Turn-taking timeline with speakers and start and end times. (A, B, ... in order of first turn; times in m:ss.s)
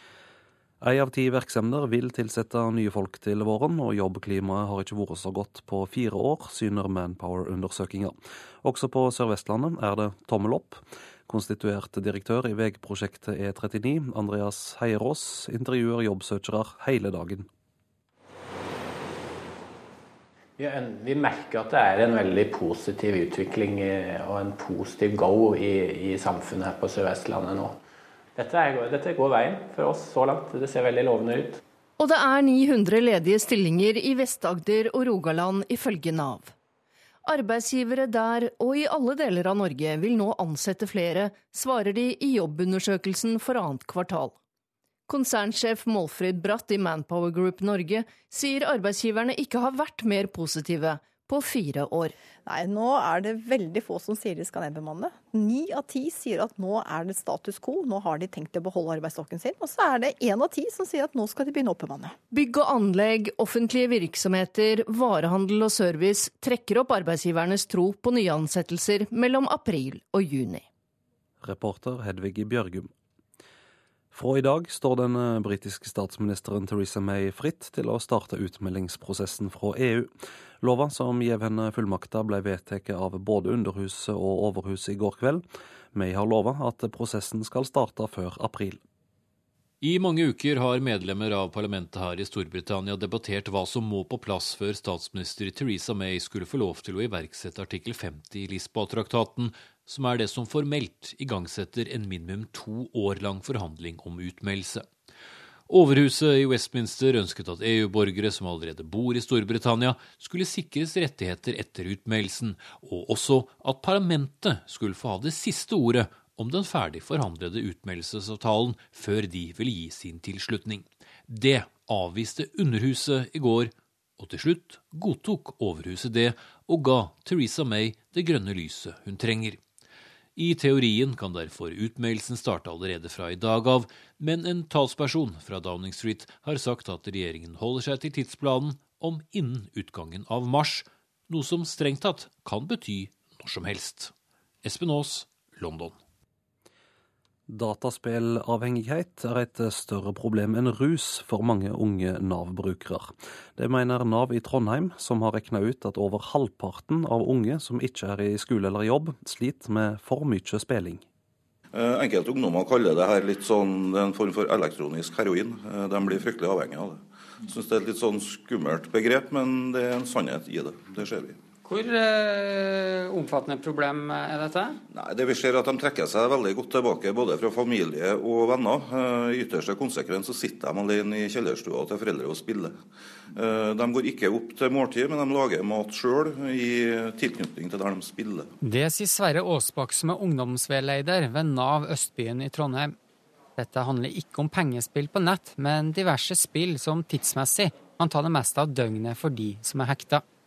0:00.8-0:17.5 A
0:20.6-0:27.8 B
0:28.4-0:31.6 B
0:32.0-0:36.5 C
0:37.2-0:44.4 C
0:45.1-0:52.1 C
0:52.4-1:02.1 D
1:02.3-1:10.6 C
1:11.4-1:12.9 A
1:14.1-1:20.1 A
1:20.6-1:25.4 A
1:25.9-1:28.8 A
1:29.8-1:44.9 E
1:45.7-2:09.6 E
2:10.4-2:24.1 E
2:24.6-2:25.9 E
2:27.5-2:41.0 A
2:41.7-2:51.4 F
2:51.6-2:54.8 G
2:54.9-3:02.8 F
3:03.3-3:08.5 F
3:08.6-3:13.0 G
3:13.6-3:20.2 G